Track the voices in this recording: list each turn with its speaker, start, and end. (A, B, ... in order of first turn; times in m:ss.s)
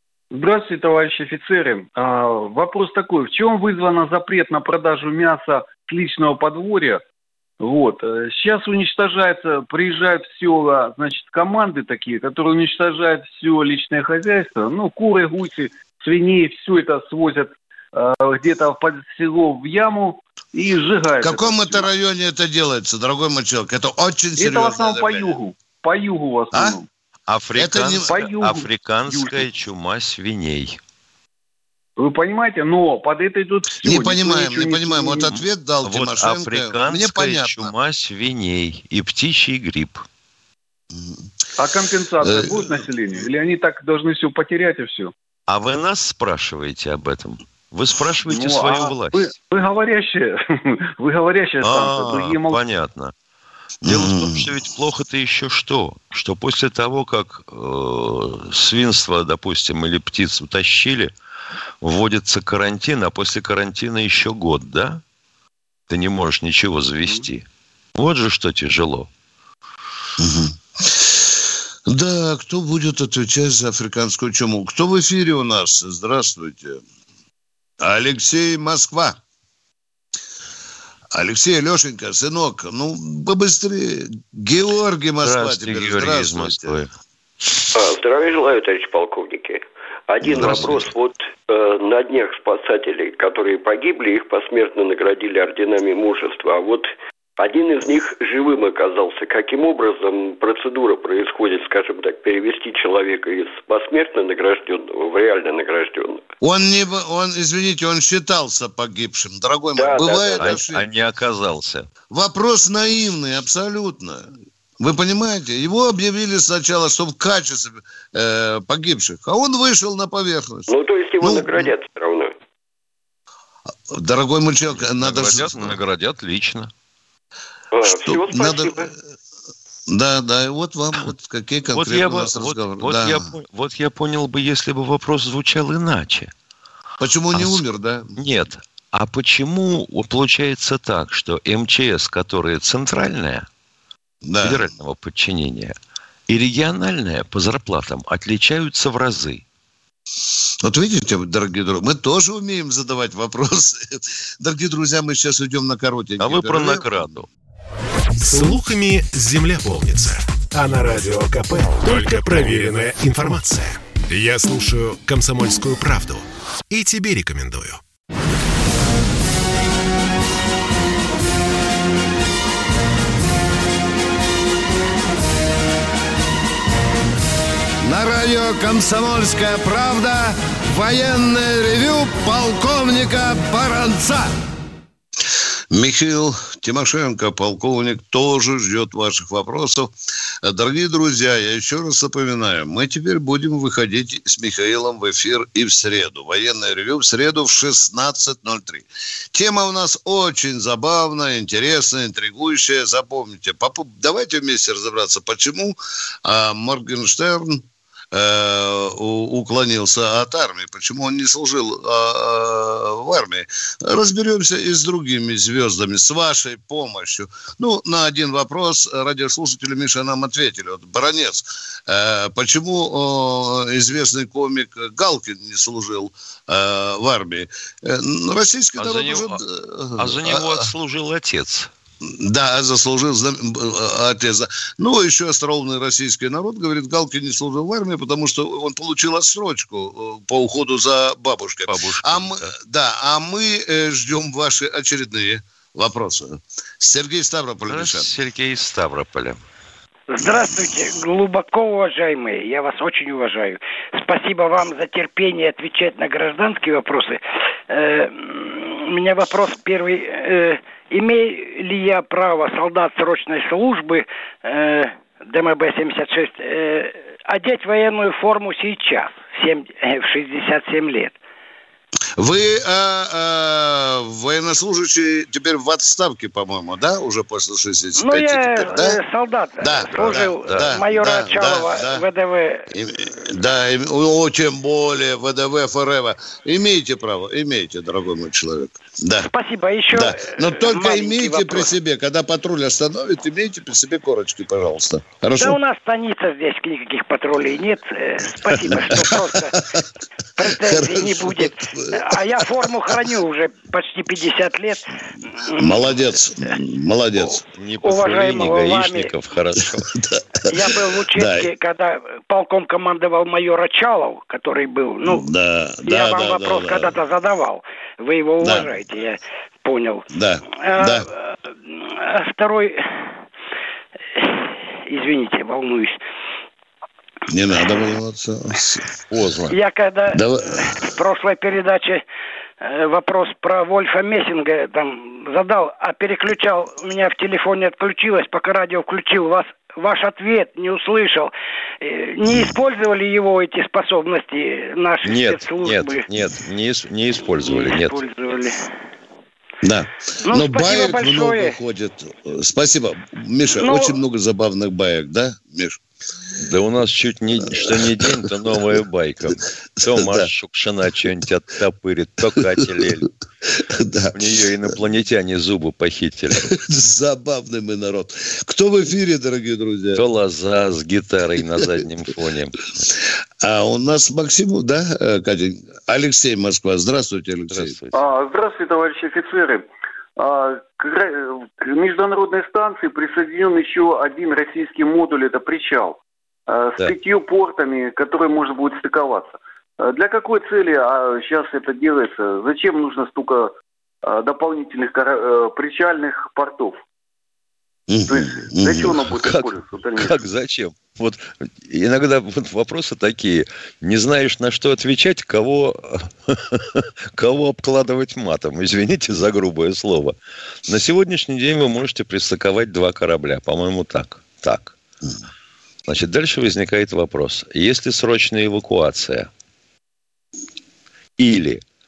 0:00.3-0:07.0 A
0:07.6-0:21.9 A
0:21.2-0:25.4 B
0:24.4-0:26.9 A
0:26.5-0:26.8 B
0:27.3-0:30.8 C
0:27.5-0:28.1 B
0:28.0-0:29.5 A
0:32.0-0:35.3 A
0:33.8-0:37.7 B
0:35.8-0:40.1 C
0:40.9-0:41.2 B
0:41.6-0:45.1 A
0:42.2-0:42.7 B
0:45.5-0:49.3 C
0:48.3-0:52.6 A
0:51.6-0:53.1 C
0:53.8-0:54.5 B
0:53.9-1:01.1 C
1:01.8-1:05.0 C
1:05.9-1:07.4 C
1:07.9-1:09.1 C
1:10.2-1:11.3 B
1:11.9-1:16.8 B
1:17.8-1:19.2 B
1:21.1-1:26.8 B
1:25.2-1:26.9 C
1:27.7-1:46.2 D
1:30.3-1:30.7 B
1:30.4-1:30.9 C
1:46.4-1:50.8 B
1:49.8-1:50.6 D
1:50.4-1:51.9 C
1:52.1-2:01.7 B
2:00.7-2:02.3 D
2:03.9-2:05.8 B
2:04.8-2:06.7 C
2:07.7-2:08.9 D
2:07.9-2:08.9 B
2:09.9-2:13.3 B
2:11.7-2:16.3 C
2:17.0-2:18.2 B
2:17.3-2:23.4 C
2:24.2-2:24.7 B
2:24.4-2:25.7 C
2:26.3-2:29.4 C
2:30.6-2:37.1 B
2:36.2-2:37.3 C
2:38.2-2:47.8 E
2:57.8-3:04.3 B
3:05.7-3:50.7 B
3:48.8-3:49.4 C
3:50.0-3:51.7 C
3:52.0-4:08.1 B
4:01.7-4:02.5 C
4:07.7-4:09.4 C
4:10.1-4:31.2 F
4:32.2-4:39.0 B
4:38.0-4:42.7 F
4:39.6-4:42.0 B
4:39.9-4:40.8 C
4:42.7-4:49.3 B
4:49.3-4:51.7 F
4:49.9-4:55.6 B
4:55.4-4:59.8 F
4:58.6-4:59.8 B
5:00.4-5:06.1 F
5:00.7-5:01.9 B
5:05.6-5:07.4 B
5:07.2-5:09.1 F
5:07.5-5:09.9 C
5:09.8-5:10.2 B
5:10.5-5:15.3 F
5:11.1-5:11.4 B
5:15.1-5:16.9 B
5:15.8-5:23.1 F
5:18.4-5:18.7 B
5:20.1-5:21.1 B
5:24.2-5:26.0 F
5:27.3-5:28.9 B
5:29.1-5:29.6 C
5:29.5-5:32.0 F
5:30.1-5:30.7 B
5:32.6-5:46.1 F
5:45.0-5:48.0 C
5:47.4-5:48.6 F
5:49.6-5:55.8 B
5:50.2-5:51.6 F
5:53.6-5:54.0 F
5:56.4-6:03.1 C
5:57.5-5:58.6 B
5:59.9-6:00.3 B
6:02.4-6:02.9 B
6:03.6-6:04.7 B
6:04.1-6:06.5 C
6:06.4-6:10.0 B
6:09.9-6:12.6 C
6:12.9-6:17.8 B
6:17.5-6:18.0 C
6:17.9-6:33.5 A
6:34.0-6:36.8 A
6:37.9-6:39.0 B
6:38.1-6:40.2 A
6:39.2-6:50.1 C
6:50.7-6:54.8 C
6:55.9-6:59.3 C
7:01.2-7:01.6 C